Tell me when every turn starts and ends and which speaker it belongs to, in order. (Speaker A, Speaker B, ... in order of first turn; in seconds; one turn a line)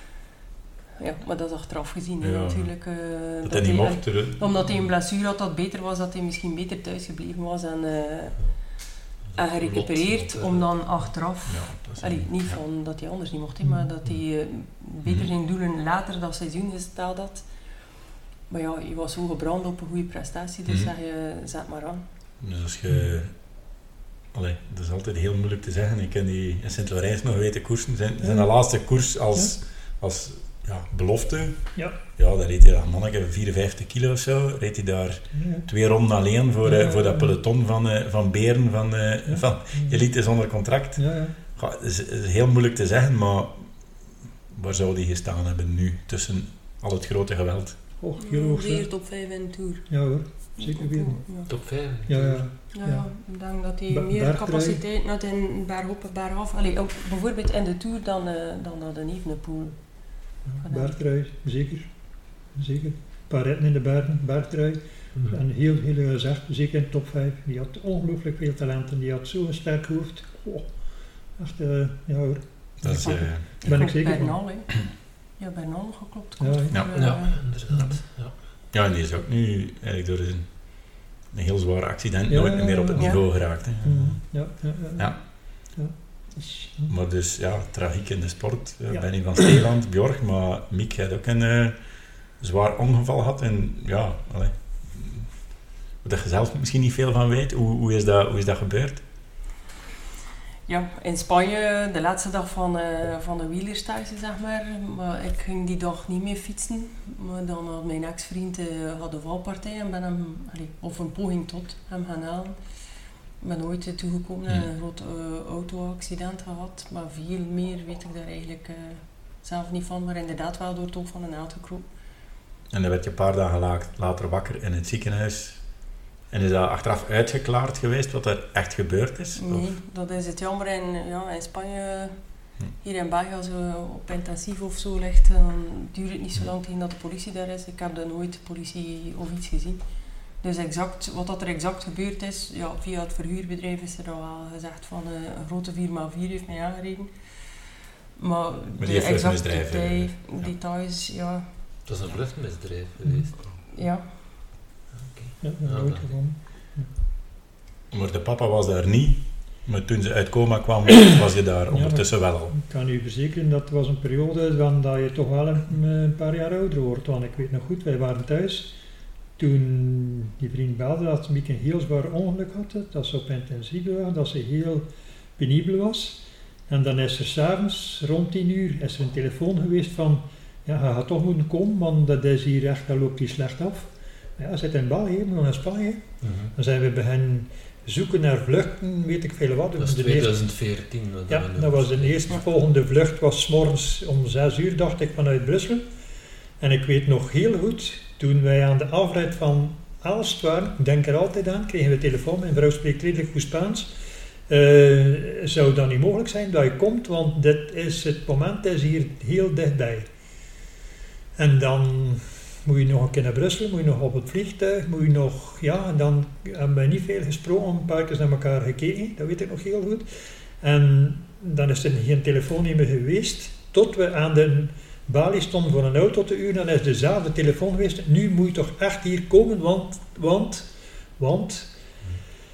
Speaker A: 1.0-17.5
Speaker B: 2.2-2.7
Speaker B: 3.4-4.7
Speaker C: 9.3-11.1
Speaker B: 11.4-12.6
Speaker D: 13.6-13.9
Speaker A: 18.5-22.0
Speaker B: 22.4-23.4
Speaker B: 24.3-43.7
Speaker D: 28.2-28.5
Speaker D: 35.3-35.6
Speaker D: 36.6-37.3
Speaker D: 39.2-40.0
Speaker D: 41.0-41.3
Speaker B: 44.5-47.8
Speaker D: 48.0-48.9
Speaker A: 48.2-50.0
Speaker D: 49.9-51.2
Speaker A: 50.5-51.5
Speaker C: 51.5-52.5
Speaker D: 52.1-53.1
Speaker A: 52.7-59.8
Speaker D: 53.9-54.8
Speaker D: 60.5-61.9
Speaker A: 60.6-60.9
Speaker D: 62.5-70.8
Speaker D: 71.3-74.4
Speaker B: 72.8-73.8
Speaker A: 72.9-77.4
Speaker D: 76.4-76.8
Speaker B: 76.7-77.0
Speaker C: 76.9-78.3
Speaker B: 78.7-85.2
Speaker D: 82.3-86.9
Speaker A: 83.0-83.2
Speaker C: 83.7-84.1
Speaker B: 86.9-91.8
Speaker D: 88.9-89.5
Speaker B: 92.4-95.4
Speaker B: 96.0-99.0
Speaker A: 100.7-112.6
Speaker A: 113.4-121.8
Speaker B: 122.7-129.7
Speaker A: 129.3-132.1
Speaker A: 132.7-139.8
Speaker A: 140.4-147.1
Speaker A: 148.2-151.4
Speaker B: 148.8-150.5
Speaker C: 151.8-153.6
Speaker A: 153.7-154.5
Speaker C: 154.9-156.1
Speaker D: 155.4-156.9
Speaker B: 157.9-162.5
Speaker D: 161.7-168.7
Speaker D: 169.4-174.8
Speaker D: 175.4-190.4
Speaker C: 186.2-186.5
Speaker C: 189.8-192.3
Speaker D: 191.3-195.9
Speaker D: 196.6-203.9
Speaker D: 204.5-210.1
Speaker D: 211.3-231.7